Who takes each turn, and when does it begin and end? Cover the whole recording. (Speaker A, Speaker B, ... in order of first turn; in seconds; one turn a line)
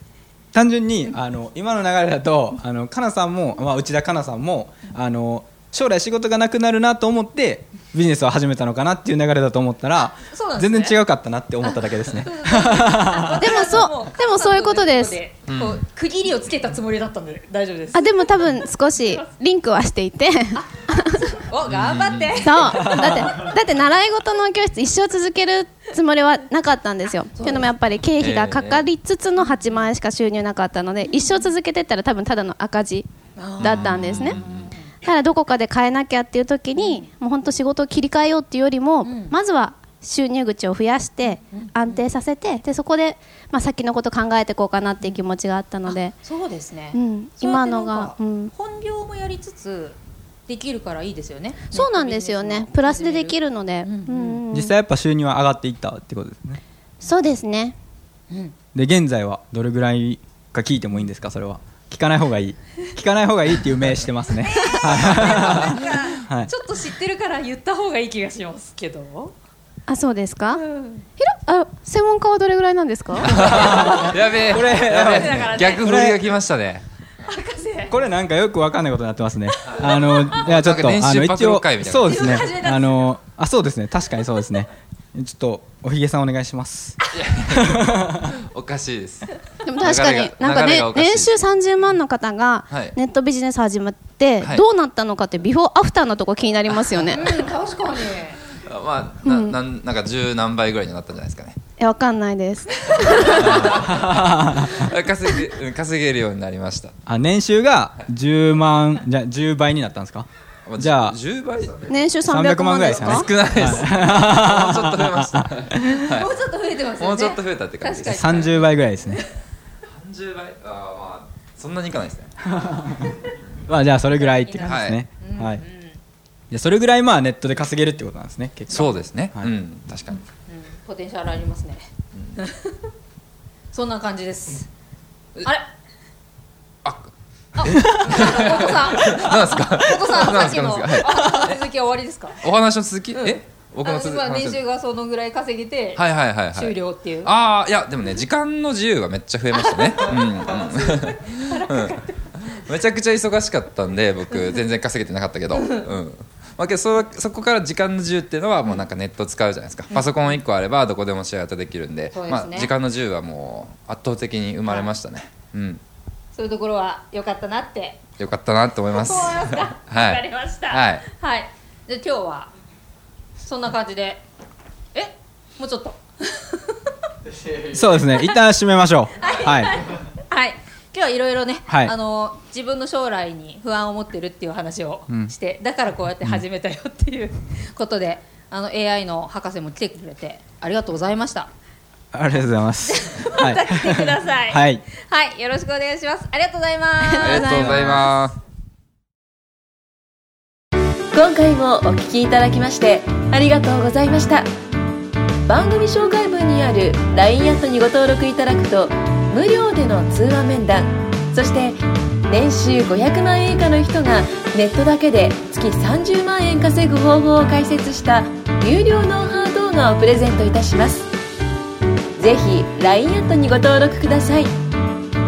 Speaker A: 0.5-13.6
Speaker B: 10.2-11.0
Speaker B: 11.6-18.5
Speaker C: 13.4-15.2
Speaker D: 15.5-15.8
Speaker C: 17.9-21.3
Speaker B: 20.6-23.3
Speaker D: 21.6-22.5
Speaker C: 22.4-33.1
Speaker A: 22.6-23.4
Speaker B: 27.3-27.7
Speaker D: 28.2-28.9
Speaker B: 29.4-29.9
Speaker B: 33.4-34.9
Speaker C: 33.6-34.4
Speaker D: 33.6-34.7
Speaker C: 35.0-46.1
Speaker B: 36.7-37.1
Speaker B: 39.0-39.4
Speaker B: 41.5-42.0
Speaker B: 45.0-45.3
Speaker B: 45.8-54.4
Speaker C: 46.9-48.5
Speaker C: 51.7-54.7
Speaker A: 54.5-56.6
Speaker C: 57.0-57.8
Speaker B: 58.3-58.5
Speaker A: 58.7-66.5
Speaker B: 64.4-69.3
Speaker C: 69.9-70.6
Speaker B: 70.5-71.1
Speaker C: 71.2-73.3
Speaker D: 73.2-76.8
Speaker A: 73.3-76.2
Speaker B: 75.0-75.9
Speaker B: 77.2-78.0
Speaker A: 77.9-87.0
Speaker D: 79.7-82.5
Speaker B: 82.0-83.1
Speaker D: 87.1-91.5
Speaker A: 87.5-88.3
Speaker C: 89.6-97.2
Speaker D: 92.7-93.0
Speaker D: 96.7-97.2
Speaker B: 97.1-98.4
Speaker D: 98.6-101.6
Speaker C: 99.2-99.6
Speaker C: 101.8-103.7
Speaker B: 102.9-103.7
Speaker D: 103.2-106.9
Speaker A: 103.7-104.9
Speaker A: 107.1-110.3
Speaker D: 110.7-112.2
Speaker A: 110.8-111.2
Speaker C: 111.9-113.3
Speaker A: 112.2-116.2
Speaker D: 112.8-116.3
Speaker B: 115.9-119.3
Speaker D: 117.0-118.5
Speaker A: 118.1-119.2
Speaker D: 119.9-122.3
Speaker A: 122.5-123.1
Speaker A: 123.7-125.6
Speaker B: 124.1-126.0
Speaker D: 124.7-125.0
Speaker A: 126.5-129.6
Speaker D: 128.7-130.2
Speaker B: 130.4-132.9
Speaker B: 133.7-134.7
Speaker B: 135.4-135.7
Speaker D: 136.8-141.6
Speaker B: 137.6-142.4
Speaker D: 142.4-144.6
Speaker B: 143.1-147.3
Speaker D: 145.9-165.8
Speaker B: 149.5-152.1
Speaker B: 159.9-160.4
Speaker B: 162.1-162.7
Speaker B: 164.7-164.9
Speaker B: 166.3-168.0
Speaker D: 168.2-171.0
Speaker B: 168.9-172.5
Speaker B: 173.4-174.2
Speaker B: 174.9-176.8
Speaker A: 177.6-179.8
Speaker B: 179.2-191.5
Speaker A: 181.7-181.9
Speaker A: 185.1-185.3
Speaker A: 192.1-194.8
Speaker B: 192.8-197.9
Speaker C: 197.0-198.1
Speaker D: 197.2-198.3
Speaker E: 201.1-204.5
Speaker E: 205.5-221.1
Speaker E: 222.2-224.5